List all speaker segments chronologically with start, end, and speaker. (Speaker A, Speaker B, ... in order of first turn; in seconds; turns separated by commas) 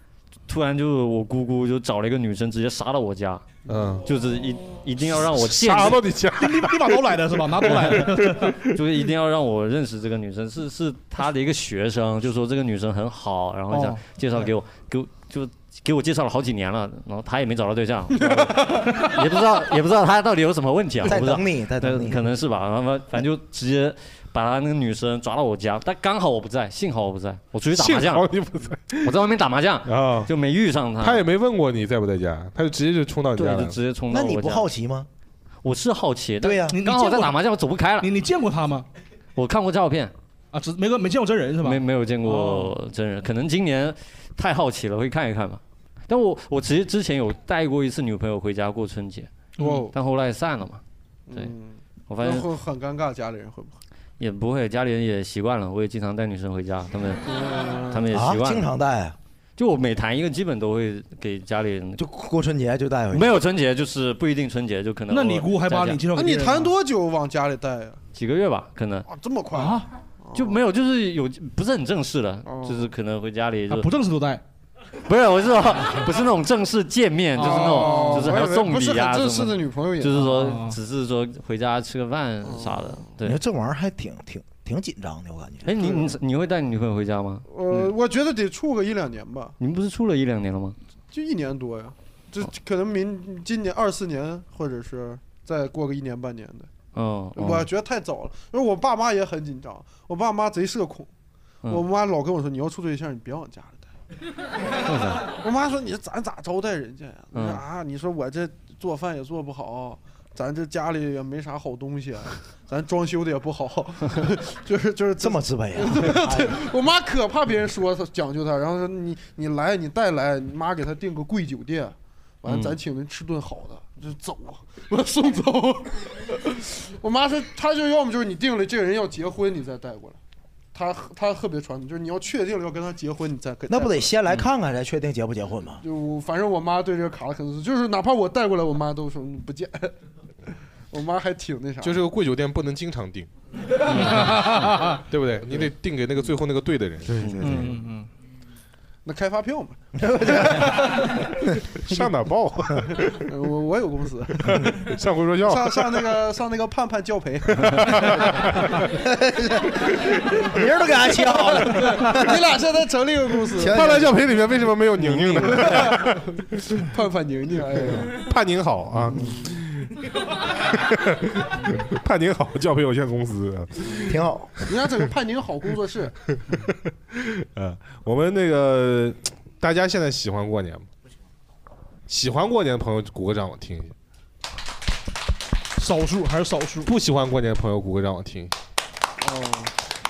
Speaker A: 0.5-3.4, Speaker B: 3.7-4.0, Speaker A: 4.0-6.1, Speaker B: 5.4-7.0, Speaker C: 6.4-8.5, Speaker A: 7.7-8.1, Speaker B: 7.7-8.8, Speaker A: 8.7-28.2, Speaker C: 13.7-14.0, Speaker D: 18.4-18.7, Speaker E: 21.0-22.2, Speaker B: 27.7-29.1, Speaker A: 29.0-31.2, Speaker B: 29.8-30.3, Speaker B: 31.0-33.8, Speaker A: 33.4-34.6, Speaker E: 34.1-35.1, Speaker A: 35.6-38.1, Speaker E: 36.4-36.8, Speaker C: 36.7-37.4, Speaker C: 38.0-38.9, Speaker A: 39.4-40.1, Speaker C: 40.5-42.7, Speaker A: 41.6-49.3, Speaker C: 49.6-49.8, Speaker D: 49.6-49.9, Speaker A: 49.9-50.8, Speaker D: 51.3-53.8, Speaker A: 52.1-52.5, Speaker A: 54.2-58.7, Speaker D: 57.3-58.1, Speaker E: 58.1-59.1, Speaker A: 59.6-62.0, Speaker E: 62.0-63.4, Speaker A: 63.1-66.0, Speaker C: 65.1-66.7, Speaker D: 66.1-68.0, Speaker A: 68.1-69.1, Speaker D: 69.1-70.6, Speaker C: 69.5-69.8, Speaker A: 70.3-73.9, Speaker D: 72.5-72.9, Speaker C: 73.7-74.4, Speaker A: 75.0-83.4, Speaker C: 77.3-78.2, Speaker D: 77.4-80.5, Speaker C: 80.2-80.7, Speaker D: 82.4-83.0, Speaker E: 83.2-85.7, Speaker A: 85.6-87.9, Speaker D: 85.8-86.1, Speaker D: 87.5-89.5, Speaker A: 89.6-90.8, Speaker D: 91.1-96.7, Speaker A: 96.9-97.7, Speaker D: 97.3-101.1, Speaker D: 101.7-103.9, Speaker A: 104.8-105.2, Speaker D: 105.3-130.2, Speaker A: 107.3-107.6, Speaker E: 115.2-116.6, Speaker A: 122.5-122.8, Speaker D: 130.7-134.1, Speaker E: 133.7-135.8, Speaker D: 135.8-139.9, Speaker D: 140.9-142.0, Speaker B: 141.8-143.3, Speaker A: 143.9-144.4, Speaker C: 143.9-145.0, Speaker B: 145.1-147.3, Speaker E: 147.1-147.7, Speaker A: 147.4-147.6, Speaker C: 147.4-148.1, Speaker D: 149.0-151.1, Speaker E: 150.0-150.9, Speaker B: 151.8-153.3, Speaker D: 153.3-154.7, Speaker B: 154.4-156.1, Speaker D: 155.4-158.4, Speaker B: 157.6-158.9, Speaker E: 159.0-159.9, Speaker E: 160.4-162.4, Speaker D: 161.3-164.1, Speaker E: 163.6-164.1, Speaker B: 163.7-166.2, Speaker D: 165.2-166.2, Speaker D: 166.9-168.2, Speaker B: 168.1-169.9, Speaker D: 169.1-169.5, Speaker B: 170.7-174.6, Speaker E: 174.1-174.5, Speaker D: 174.7-176.1, Speaker B: 176.5-180.8, Speaker B: 182.1-183.9, Speaker C: 185.8-186.9, Speaker B: 186.8-188.5, Speaker D: 189.2-189.7